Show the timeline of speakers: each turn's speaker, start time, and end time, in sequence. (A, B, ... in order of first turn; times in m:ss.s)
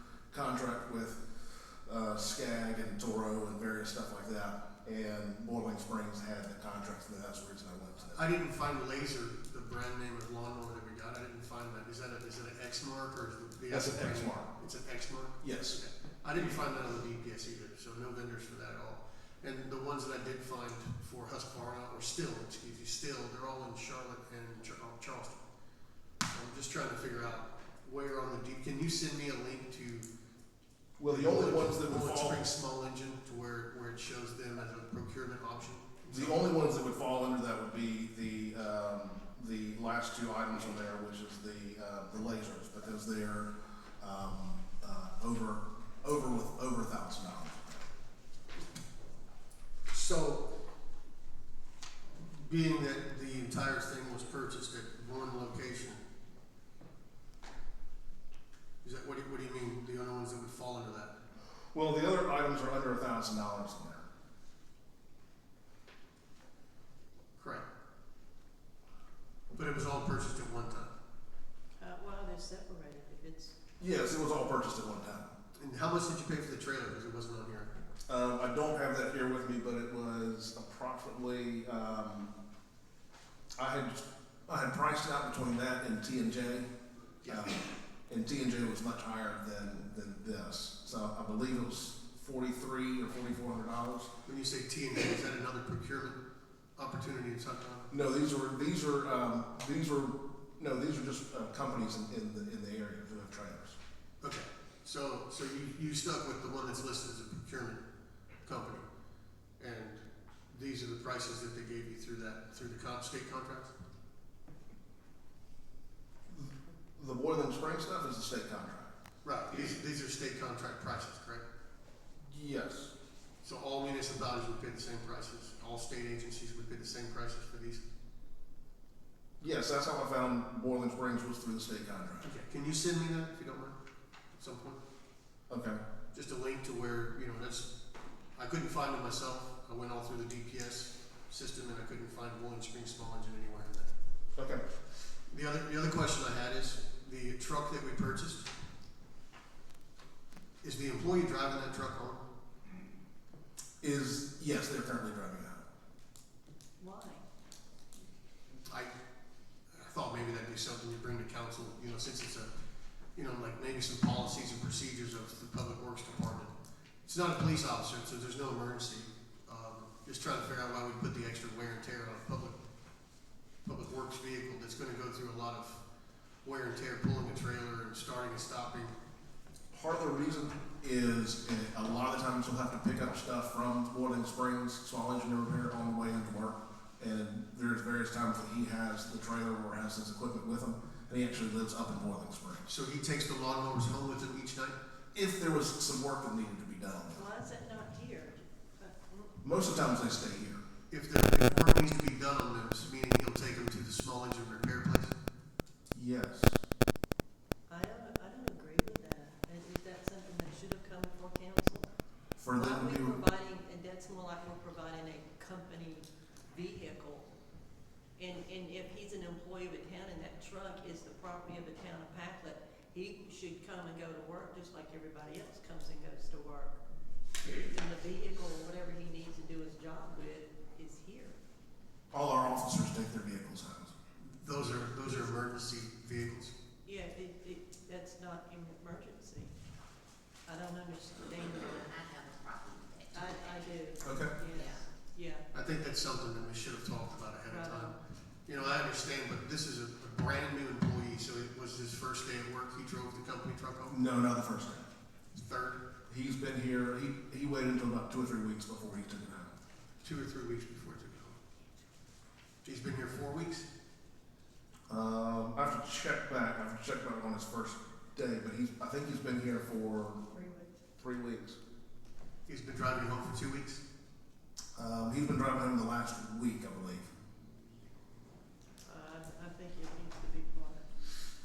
0:00.3-0:08.3 A
0:08.1-0:25.4 B
0:13.7-0:14.5 A
0:15.4-0:15.8 A
0:26.3-0:30.1 B
0:31.0-0:32.4 A
0:31.0-0:36.6 B
0:36.1-0:47.8 A
0:49.9-0:50.5 B
0:52.2-0:56.0 B
0:58.8-1:01.1 B
1:01.7-1:04.1 A
1:07.4-1:07.6 B
1:09.5-1:10.9 B
1:11.8-1:13.5 C
1:13.8-1:15.3 A
1:15.6-1:17.7 B
1:18.1-1:22.3 A
1:23.6-1:26.7 A
1:27.2-1:27.6 B
1:27.2-1:34.1 A
1:34.2-1:36.2 B
1:36.8-1:37.9 B
1:37.9-1:43.8 A
1:44.2-1:47.8 B
1:48.4-1:48.8 B
1:49.6-1:53.7 B
1:56.3-1:58.9 A
1:59.2-2:01.4 B
2:02.2-2:02.9 A
2:03.4-2:07.8 B
2:09.4-2:12.3 A
2:12.2-2:13.8 B
2:14.3-2:14.8 B
2:15.5-2:15.8 A
2:16.1-2:17.7 B
2:18.3-2:23.9 B
2:24.4-2:24.6 A
2:25.3-2:28.5 B
2:30.6-2:32.2 B
2:33.8-2:35.6 A
2:36.8-2:37.2 C
2:38.7-2:38.9 B
2:39.7-2:42.5 B
2:43.1-2:46.5 B
2:47.0-2:52.6 B
2:53.6-2:55.8 B
2:56.4-2:58.9 B
2:59.7-3:12.7 A
3:12.6-3:14.8 B
3:15.1-3:17.2 A
3:17.1-3:19.6 C
3:19.4-3:20.6 A
3:20.9-3:25.1 B
3:21.4-3:21.8 C
3:25.9-3:26.6 A
3:27.7-3:31.9 C
3:32.4-3:33.2 A
3:32.5-3:37.3 C
3:38.2-3:46.8 C
3:47.4-3:51.4 C
3:52.1-3:53.9 A
3:54.2-3:56.5 B
3:56.8-3:59.5 C
4:00.4-4:01.9 C
4:01.8-4:03.7 D
4:03.1-4:05.4 C
4:04.0-4:04.3 A
4:04.5-4:04.9 D
4:05.5-4:07.9 B
4:07.4-4:08.0 C
4:08.4-4:14.0 B
4:13.9-4:14.9 A
4:15.3-4:15.8 B
4:16.1-4:19.6 A
4:20.0-4:21.4 B
4:22.6-4:23.6 B
4:24.9-4:30.2 A
4:30.3-4:30.7 C
4:31.0-4:31.6 A
4:32.4-4:33.8 B
4:34.8-4:37.1 A
4:38.8-4:40.9 C